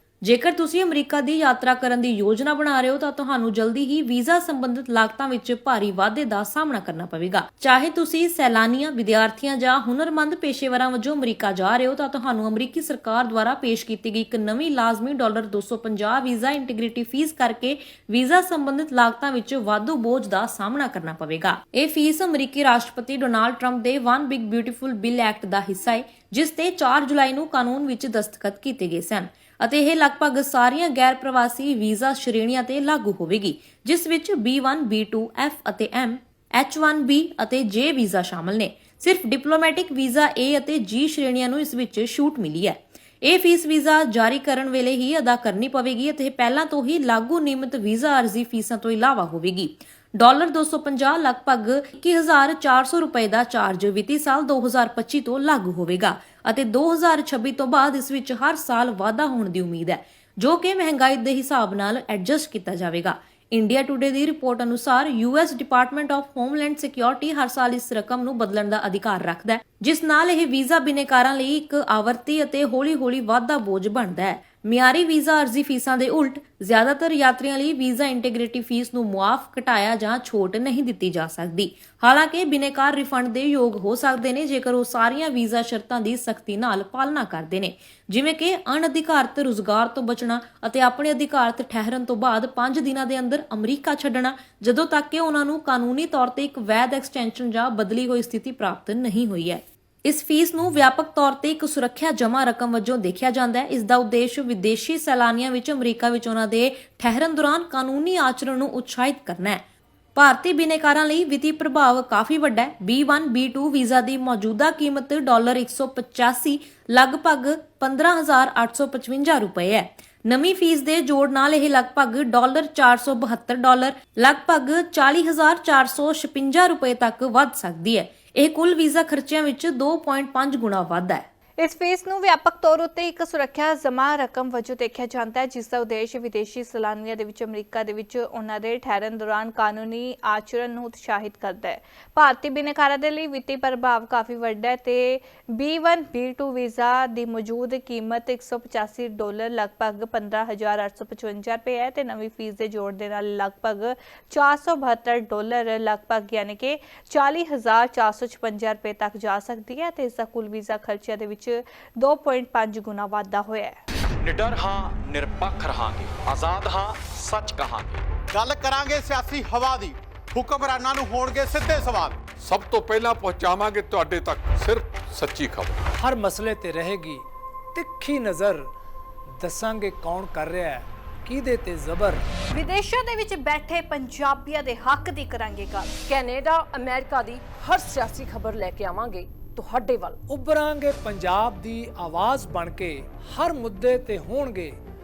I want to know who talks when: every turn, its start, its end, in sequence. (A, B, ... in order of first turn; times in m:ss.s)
0:00.2-1:49.6 A
1:50.2-2:11.3 A
2:11.6-2:43.8 B
2:44.3-2:48.0 C
2:48.3-2:52.3 D
2:52.4-2:55.8 E
2:55.9-2:58.7 F
2:59.3-3:02.2 F
3:02.5-3:06.0 B
3:06.1-3:10.2 G
3:10.3-3:14.8 F